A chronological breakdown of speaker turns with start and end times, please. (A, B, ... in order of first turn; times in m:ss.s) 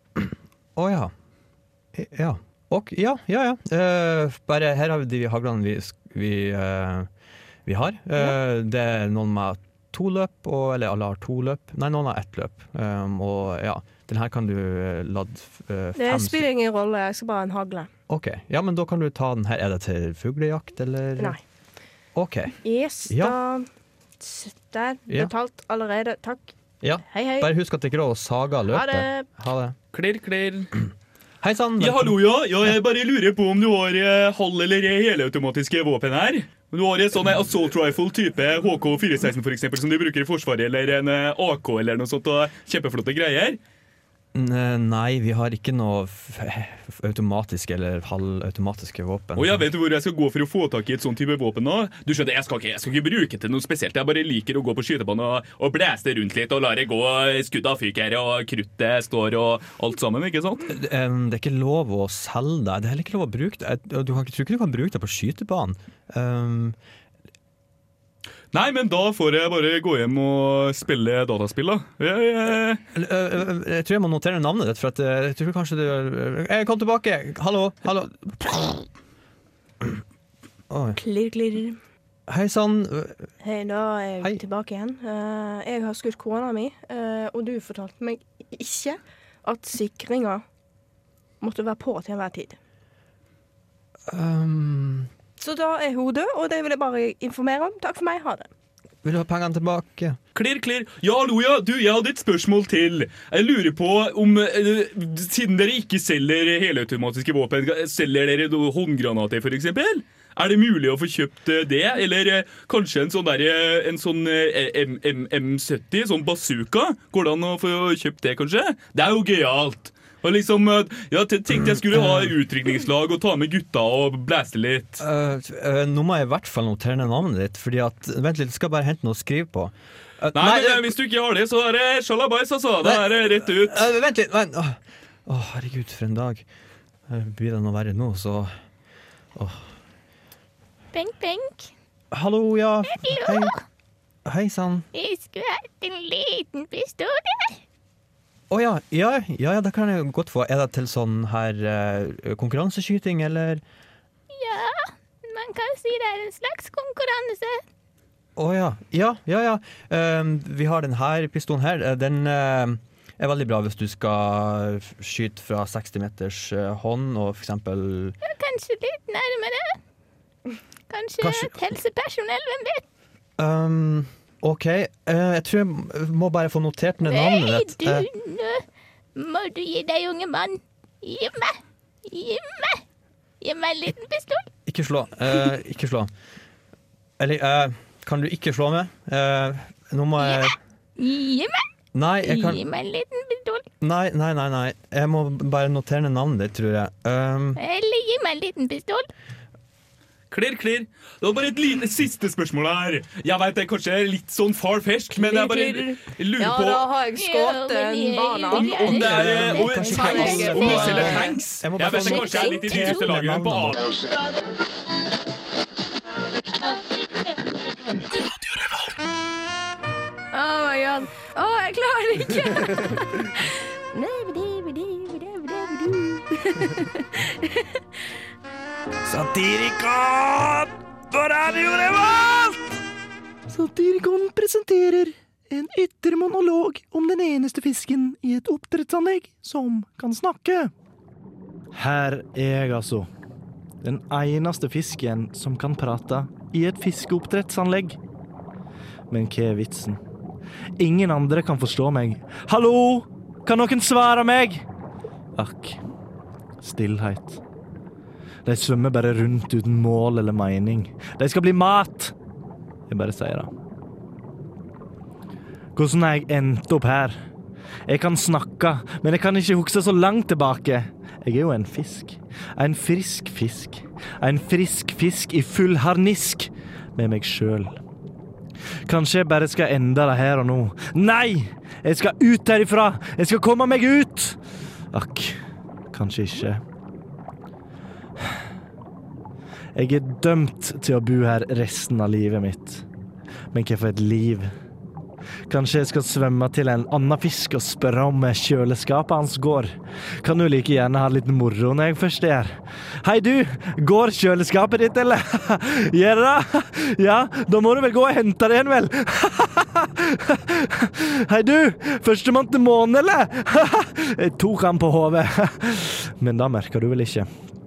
0:00.8-0:01.1 A
0:01.9-0:07.1 A
0:07.6-0:16.4 A
0:16.0-0:17.9 B
0:18.1-0:21.4 A
0:22.1-0:23.4 A
0:22.6-0:27.5 B
0:25.1-0:25.3 A
0:26.8-0:29.7 A
0:28.7-0:29.3 B
0:29.9-0:30.7 C
0:31.4-0:32.2 A
0:31.8-0:43.6 C
0:44.3-0:49.7 A
0:49.4-1:00.6 C
1:00.7-1:06.8 A
1:08.5-1:12.8 C
1:12.9-1:18.9 A
1:20.7-1:21.0 A
1:21.0-1:21.8 B
1:22.3-1:23.3 A
1:23.4-1:30.4 B
1:31.4-1:32.6 B
1:34.1-1:35.1 A
1:35.4-1:38.5 B
1:39.0-1:40.2 A
1:40.3-2:05.0 C
2:01.6-2:02.4 A
2:05.0-2:10.9 A
2:10.3-2:13.8 C
2:12.8-2:16.4 A
2:17.1-2:18.5 A
2:19.3-2:19.7 A
2:20.9-2:21.7 D
2:22.1-2:23.5 A
2:22.8-2:23.6 D
2:24.2-2:24.9 A
2:24.9-2:27.6 D
2:28.5-2:33.6 A
2:34.3-2:37.6 D
2:38.4-2:48.2 A
2:48.2-2:49.8 D
2:50.9-2:52.8 D
2:51.2-2:51.6 A
2:53.4-2:58.1 A
2:57.0-3:02.8 D
3:03.4-3:04.5 D
3:04.6-3:06.1 A
3:07.2-3:10.5 A
3:10.2-3:11.7 D
3:11.9-3:12.6 A
3:12.2-3:13.7 D
3:13.8-3:17.6 A
3:17.6-3:19.1 D
3:20.3-3:26.9 C
3:25.1-3:31.4 B
3:27.2-3:31.2 D
3:28.5-3:33.8 C
3:28.9-3:34.0 A
3:32.0-3:32.4 D
3:40.3-3:47.8 E
3:49.0-3:52.6 F
3:53.5-4:00.7 G
3:54.3-3:55.0 F
4:01.7-4:03.1 G
4:03.8-4:08.0 G
4:09.1-4:10.0 G
4:10.8-4:14.6 G
4:15.4-4:15.8 G
4:16.6-4:17.4 G
4:18.4-4:22.1 G
4:22.9-4:23.5 G
4:25.7-4:27.2 G
4:27.9-4:37.8 G
4:38.8-4:44.4 G
4:44.9-4:45.4 G
4:45.9-4:46.6 G
4:49.7-4:52.8 G
4:53.5-4:54.5 G
4:55.5-5:17.3 G